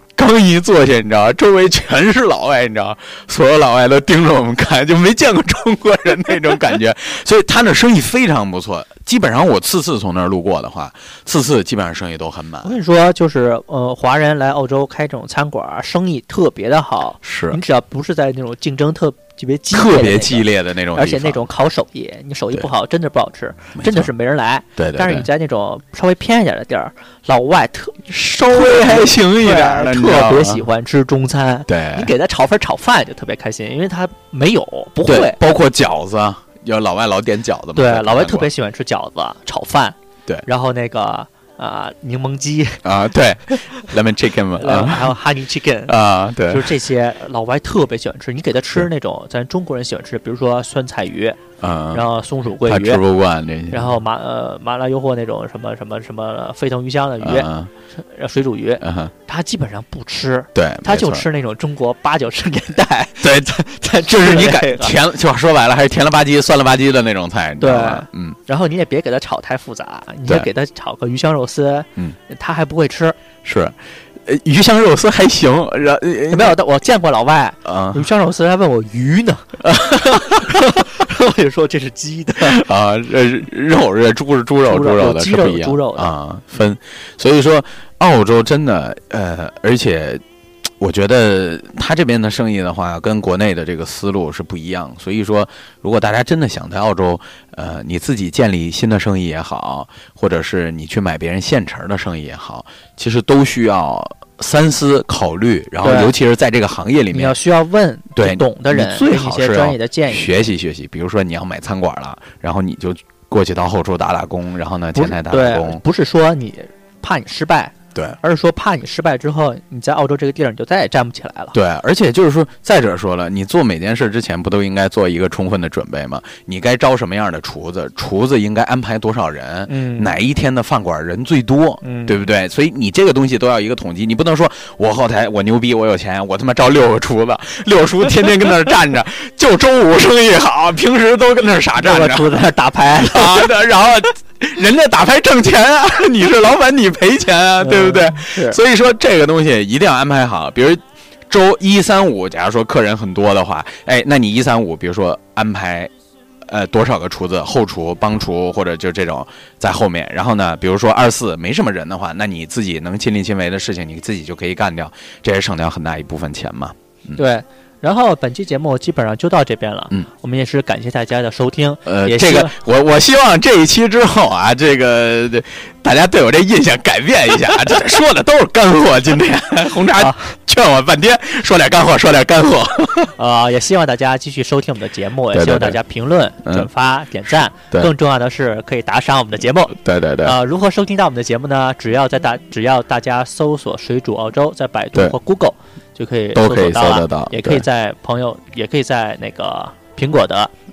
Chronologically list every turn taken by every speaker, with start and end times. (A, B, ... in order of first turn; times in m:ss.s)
0:00.2-0:12.7 A
0:12.6-0:35.4 B
0:17.2-0:17.6 A
0:19.7-0:21.5 A
0:23.8-0:24.1 A
0:24.8-0:25.3 A
0:28.5-0:30.6 A
0:31.7-0:32.1 A
0:35.0-0:38.5 A
0:37.8-0:42.8 B
0:42.8-0:45.2 A
0:44.6-0:46.0 B
0:45.9-0:46.7 A
0:46.5-0:53.0 B
0:51.6-0:52.0 A
0:52.6-0:54.0 A
0:53.7-1:05.0 B
0:57.2-0:57.7 A
0:58.8-0:59.1 A
1:00.6-1:01.3 A
1:03.2-1:08.4 A
1:07.6-1:13.2 B
1:13.4-1:16.6 A
1:16.3-1:22.6 B
1:17.6-1:18.1 A
1:19.6-1:20.6 A
1:22.4-1:30.2 A
1:24.7-1:26.1 B
1:30.8-1:47.4 A
1:45.8-1:46.1 B
1:47.1-1:50.5 B
1:48.2-1:55.8 A
1:55.0-2:01.6 B
2:01.5-2:35.9 A
2:09.7-2:10.1 B
2:11.8-2:12.2 B
2:21.8-2:23.6 B
2:27.6-2:28.6 B
2:36.5-2:47.2 A
2:47.2-2:52.6 B
2:51.9-3:03.2 A
3:00.0-3:00.2 B
3:03.2-3:20.5 B
3:05.3-3:05.8 A
3:06.4-3:06.7 A
3:09.7-3:10.4 A
3:16.3-3:17.6 A